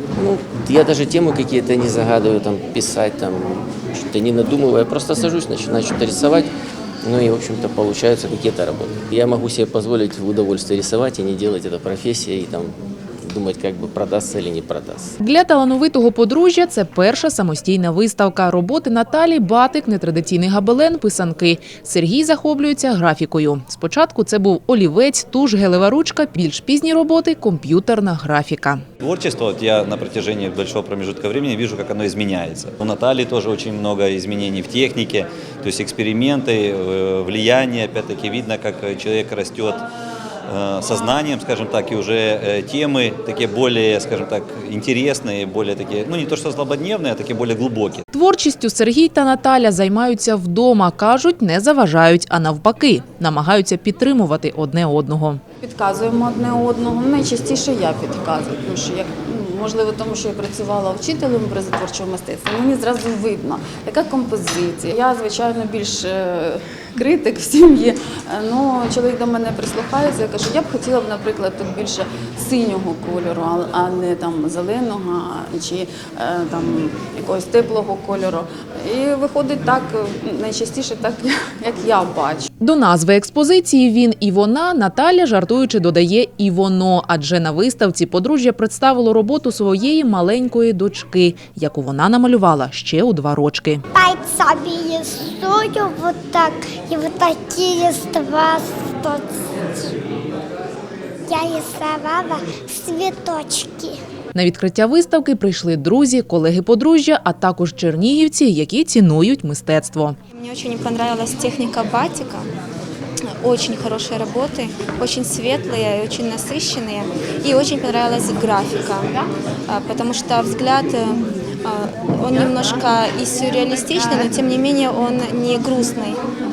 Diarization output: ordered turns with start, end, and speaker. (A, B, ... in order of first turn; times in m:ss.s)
0:00.2-0:06.5 A
0:07.0-0:15.2 A
0:15.2-0:28.8 B
0:29.0-0:39.8 C
0:40.5-0:48.0 C
0:48.1-0:55.4 B
0:55.6-1:22.5 D
1:22.6-1:33.8 B
1:33.9-1:39.9 E
1:41.3-1:44.0 E
1:44.4-1:50.2 B
1:50.3-1:52.5 F
1:53.4-2:06.2 F